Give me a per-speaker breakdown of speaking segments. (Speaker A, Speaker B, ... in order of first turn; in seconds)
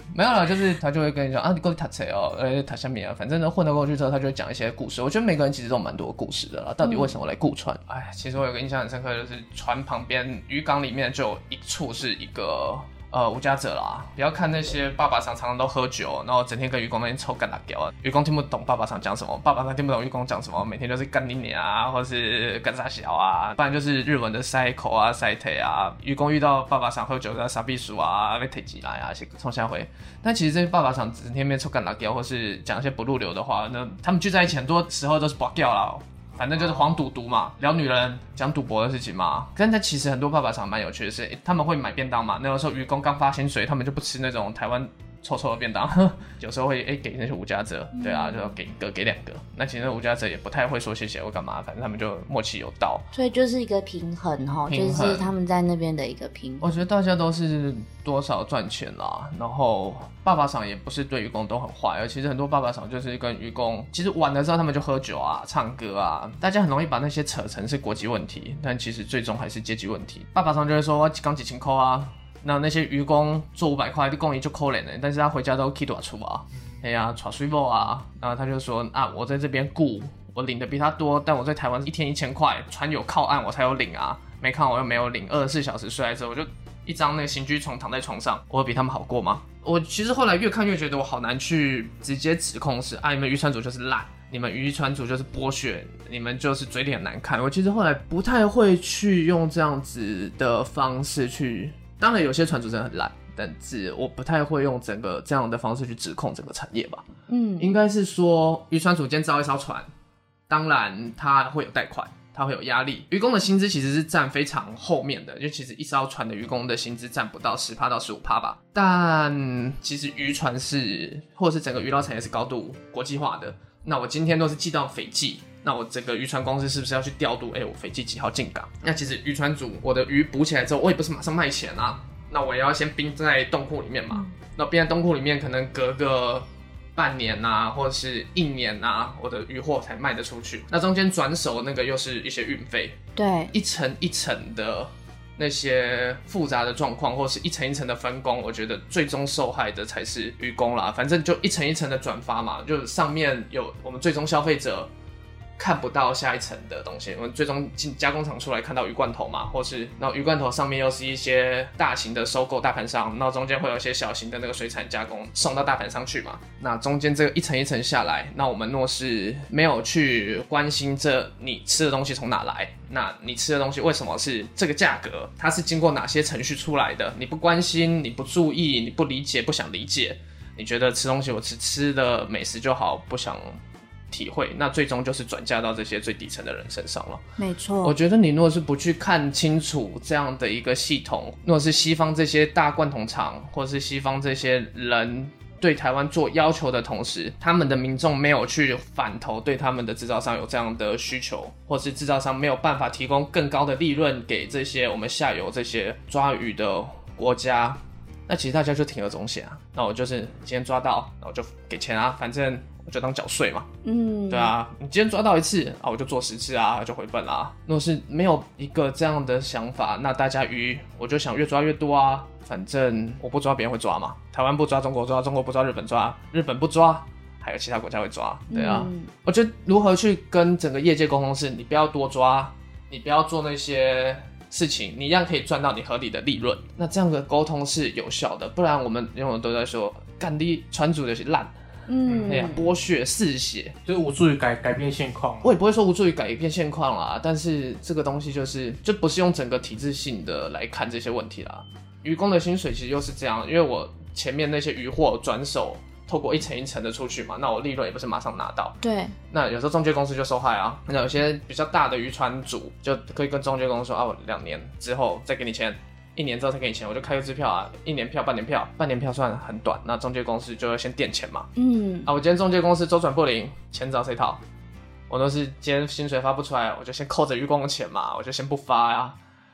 Speaker A: 0.1-53.0, 54.7-55.3, 56.6-107.0, 107.6-109.8, 110.5-143.0, 143.5-154.9, 155.6-187.2, 187.8-213.7, 214.3-241.5, 242.2-243.8, 245.4-258.8, 259.3-271.5, 272.0-274.4, 275.1-279.2
Speaker B: 6.8-7.1, 47.9-48.5, 53.1-56.6, 107.3-107.7, 143.2-143.5, 187.4-187.9, 213.8-214.5, 228.5-229.1, 241.9-242.6, 258.8-259.1, 271.6-272.1
Speaker C: 36.5-36.9, 242.1-242.5, 243.8-245.4